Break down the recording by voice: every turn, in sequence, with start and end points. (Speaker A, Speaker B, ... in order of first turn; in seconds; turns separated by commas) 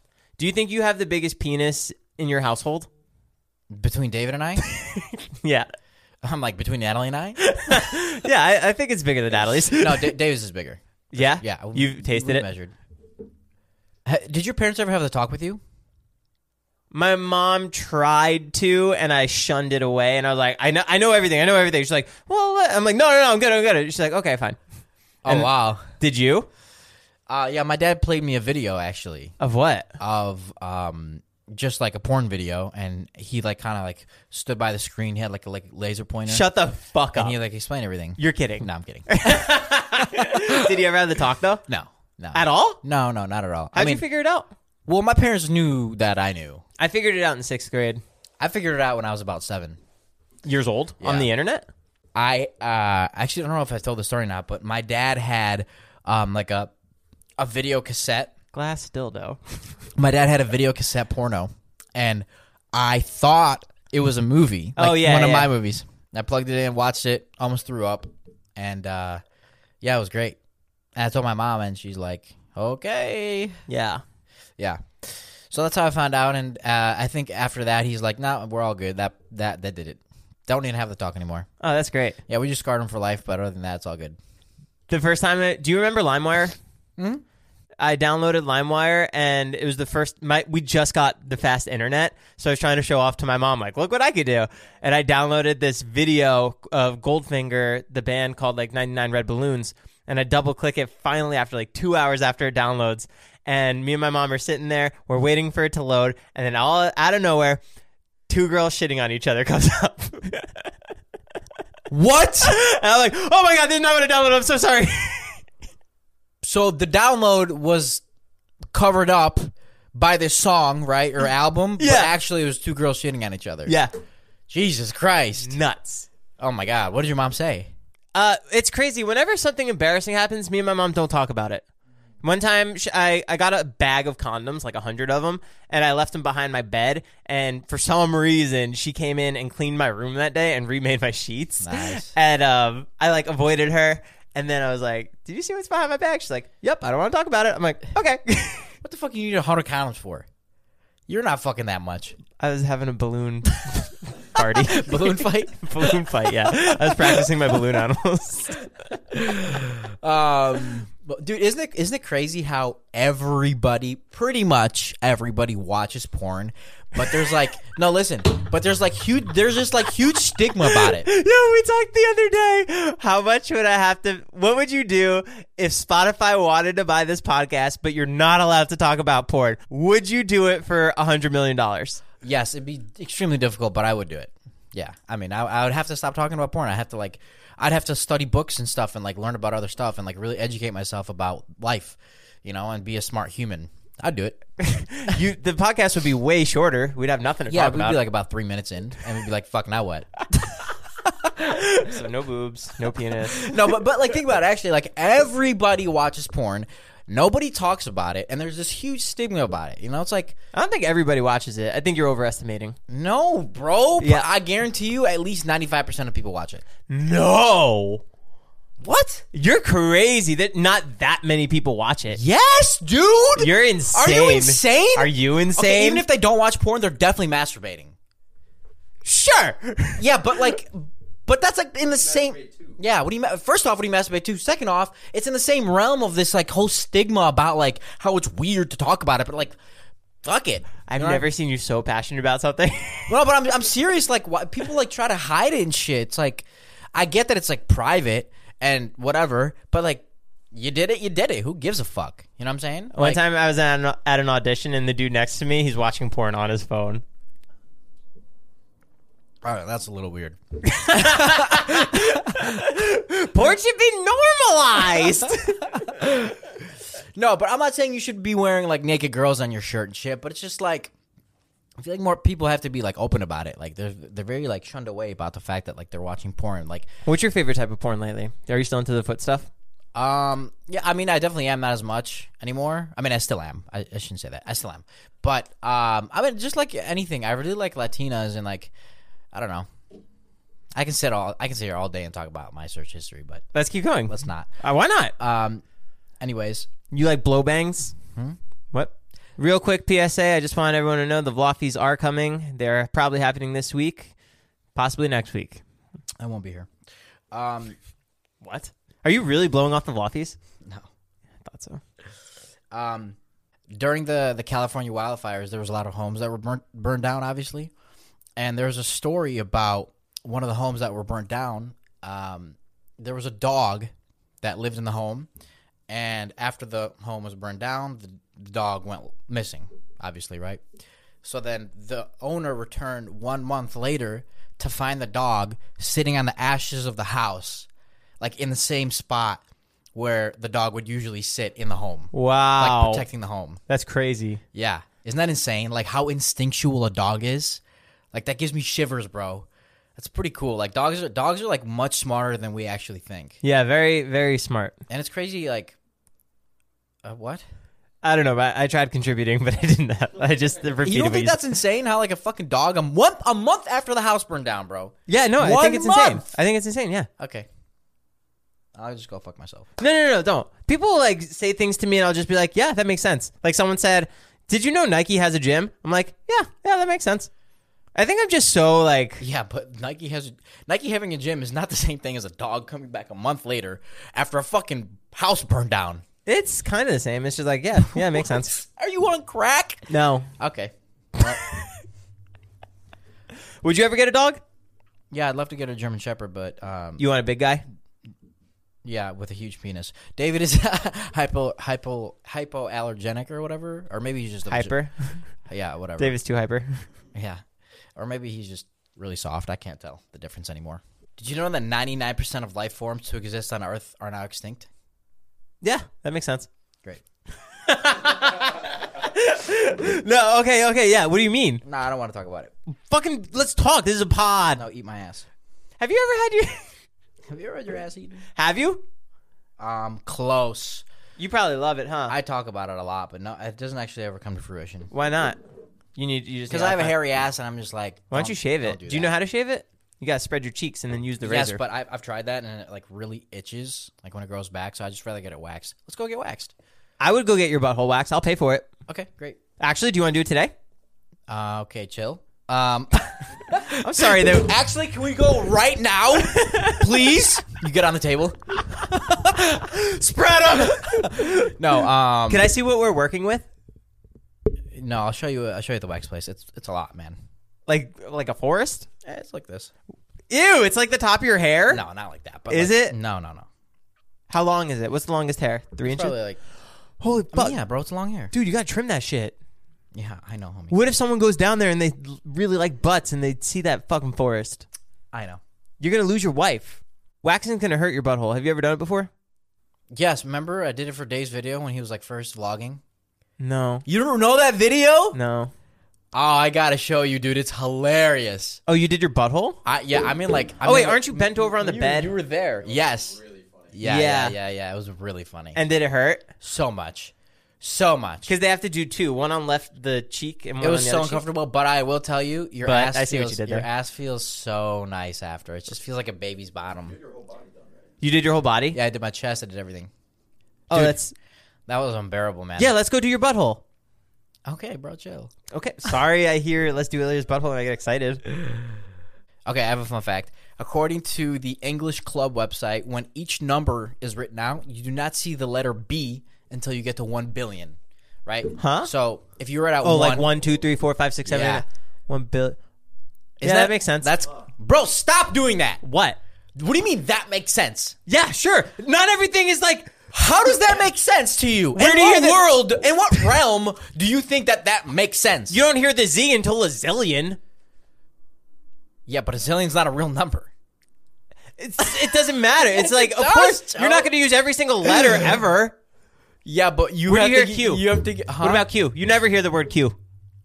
Speaker A: 0.4-2.9, Speaker B: 3.7-4.6, Speaker A: 4.6-5.7, Speaker B: 6.2-7.4, Speaker A: 7.4-10.1, Speaker B: 9.5-12.7, Speaker A: 11.1-12.5, Speaker B: 14.1-15.6, Speaker A: 16.9-24.6, Speaker B: 25.2-25.9, Speaker A: 25.3-26.5, Speaker B: 27.3-29.3, Speaker A: 29.4-29.9, Speaker B: 30.0-36.5, Speaker A: 36.3-37.4, Speaker B: 37.1-40.8, Speaker A: 38.2-41.6, Speaker B: 41.7-44.0, Speaker A: 42.3-42.8, Speaker A: 43.7-44.5, Speaker B: 44.9-46.6, Speaker A: 46.8-48.0, Speaker B: 48.4-49.8, Speaker A: 50.4-51.6, Speaker B: 51.0-51.3, Speaker B: 52.1-56.7, Speaker B: 57.4-58.3, Speaker A: 58.5-59.6, Speaker B: 60.0-69.2, Speaker A: 64.8-65.5, Speaker B: 69.8-70.4, Speaker B: 71.0-73.6, Speaker A: 73.7-74.0, Speaker B: 74.6-81.5, Speaker A: 81.6-82.2, Speaker B: 82.3-84.2, Speaker A: 84.9-86.5, Speaker A: 87.8-107.6, Speaker A: 108.3-110.7, Speaker B: 111.9-112.5, Speaker A: 112.4-115.4, Speaker B: 116.4-118.0, Speaker B: 118.7-123.8, Speaker A: 121.8-122.1, Speaker A: 123.7-123.9, Speaker B: 124.5-125.6, Speaker A: 125.4-126.1, Speaker B: 126.4-127.7, Speaker A: 128.1-131.6, Speaker A: 132.2-148.7, Speaker B: 141.6-142.1, Speaker B: 148.8-150.2, Speaker B: 151.1-152.2, Speaker A: 152.4-158.6, Speaker B: 154.4-157.3, Speaker B: 158.9-171.1, Speaker A: 170.6-182.0, Speaker B: 182.2-194.4, Speaker A: 194.6-198.0, Speaker B: 197.5-200.1, Speaker B: 201.2-201.9, Speaker A: 201.5-203.6, Speaker B: 203.3-210.4, Speaker A: 210.5-212.8, Speaker B: 212.9-216.6, Speaker A: 214.0-214.3, Speaker A: 216.9-218.0, Speaker B: 218.8-219.2, Speaker A: 219.3-222.2, Speaker B: 222.1-227.9, Speaker A: 223.4-226.0, Speaker A: 229.0-230.5, Speaker B: 230.0-239.6, Speaker B: 240.2-241.3, Speaker A: 240.9-243.2, Speaker B: 243.1-253.2, Speaker A: 252.9-257.0, Speaker B: 259.4-262.6, Speaker A: 260.6-265.7, Speaker B: 265.7-266.6, Speaker B: 267.1-270.9, Speaker B: 271.8-276.9, Speaker A: 277.0-279.5, Speaker B: 279.9-288.7, Speaker B: 289.3-289.7, Speaker B: 290.7-293.4, Speaker A: 293.5-295.1, Speaker B: 294.1-294.5, Speaker B: 295.2-295.6, Speaker B: 296.2-296.7, Speaker A: 296.9-297.9, Speaker A: 298.7-304.1, Speaker A: 304.7-305.6, Speaker B: 306.2-306.7, Speaker B: 307.3-307.8, Speaker A: 308.4-310.4, Speaker A: 311.4-311.8, Speaker B: 312.7-313.2, Speaker B: 313.7-317.7, Speaker B: 318.4-323.9, Speaker B: 324.4-325.3, Speaker B: 325.9-330.6, Speaker B: 331.2-337.7, Speaker B: 338.2-339.4, Speaker B: 339.9-343.6, Speaker A: 342.1-343.1, Speaker A: 343.7-344.4, Speaker B: 344.5-347.6, Speaker B: 348.1-353.4, Speaker A: 353.4-354.8, Speaker B: 354.9-355.8, Speaker B: 357.0-357.4, Speaker A: 358.0-361.4, Speaker B: 360.8-366.4, Speaker A: 365.1-367.1, Speaker B: 367.2-367.5, Speaker B: 368.7-369.7, Speaker A: 369.8-377.3, Speaker A: 377.9-379.2, Speaker B: 379.2-386.0, Speaker A: 386.2-388.6, Speaker B: 387.9-391.4, Speaker A: 389.9-390.3, Speaker A: 393.6-394.4, Speaker B: 395.1-397.1, Speaker A: 397.0-397.6, Speaker B: 398.9-404.8, Speaker A: 404.5-405.2, Speaker B: 405.4-406.2, Speaker A: 406.0-406.9, Speaker B: 407.1-407.4, Speaker B: 407.9-414.7, Speaker A: 415.6-416.5, Speaker A: 417.6-421.6, Speaker B: 421.6-422.5, Speaker A: 422.7-424.6, Speaker B: 424.6-425.2, Speaker A: 425.8-426.7, Speaker B: 427.3-428.2, Speaker A: 428.4-428.8, Speaker B: 429.6-430.9, Speaker A: 431.2-432.1, Speaker B: 432.1-434.9, Speaker A: 434.9-435.4, Speaker A: 435.9-437.0, Speaker B: 436.5-439.1, Speaker A: 438.1-441.6, Speaker B: 441.2-446.5, Speaker A: 447.0-448.7, Speaker B: 448.9-449.4, Speaker A: 449.6-450.5, Speaker B: 451.3-459.9, Speaker A: 453.7-454.5, Speaker A: 456.2-457.1, Speaker A: 459.6-461.5, Speaker B: 460.5-462.5, Speaker A: 462.3-463.5, Speaker B: 464.7-467.1, Speaker A: 467.7-468.9, Speaker B: 469.0-469.7, Speaker A: 470.3-471.9, Speaker B: 471.7-473.5, Speaker A: 472.5-472.9, Speaker A: 474.3-476.2, Speaker B: 475.8-476.4, Speaker A: 477.0-477.6, Speaker B: 477.3-478.3, Speaker A: 478.3-479.4, Speaker B: 479.9-480.8, Speaker A: 480.7-484.6, Speaker B: 485.1-485.4, Speaker A: 485.8-489.1, Speaker B: 489.9-492.8, Speaker A: 493.4-493.9, Speaker B: 493.9-495.2, Speaker A: 495.1-495.5, Speaker B: 496.1-498.6, Speaker A: 498.7-499.6, Speaker B: 499.6-505.6, Speaker A: 500.6-502.1, Speaker A: 503.8-504.4, Speaker A: 505.5-506.3, Speaker B: 506.4-508.3, Speaker A: 508.3-511.2, Speaker B: 510.6-517.0, Speaker A: 512.6-513.7, Speaker A: 518.0-518.8, Speaker B: 518.7-519.9, Speaker A: 520.7-521.1, Speaker B: 520.7-521.0, Speaker B: 521.7-522.7, Speaker A: 522.6-523.6, Speaker B: 524.5-525.3, Speaker A: 525.5-528.2, Speaker B: 529.5-540.3, Speaker A: 538.5-538.9, Speaker A: 539.8-542.6, Speaker B: 541.2-541.6, Speaker B: 543.4-545.8, Speaker A: 543.4-544.1, Speaker A: 545.8-546.2, Speaker B: 546.5-548.0, Speaker A: 548.1-550.0, Speaker B: 550.1-555.6, Speaker A: 551.7-552.5, Speaker A: 555.5-557.4, Speaker B: 559.1-560.5, Speaker A: 561.6-565.8, Speaker B: 562.6-564.1, Speaker B: 564.9-565.3, Speaker B: 566.4-568.7, Speaker A: 567.0-567.9, Speaker A: 568.4-570.0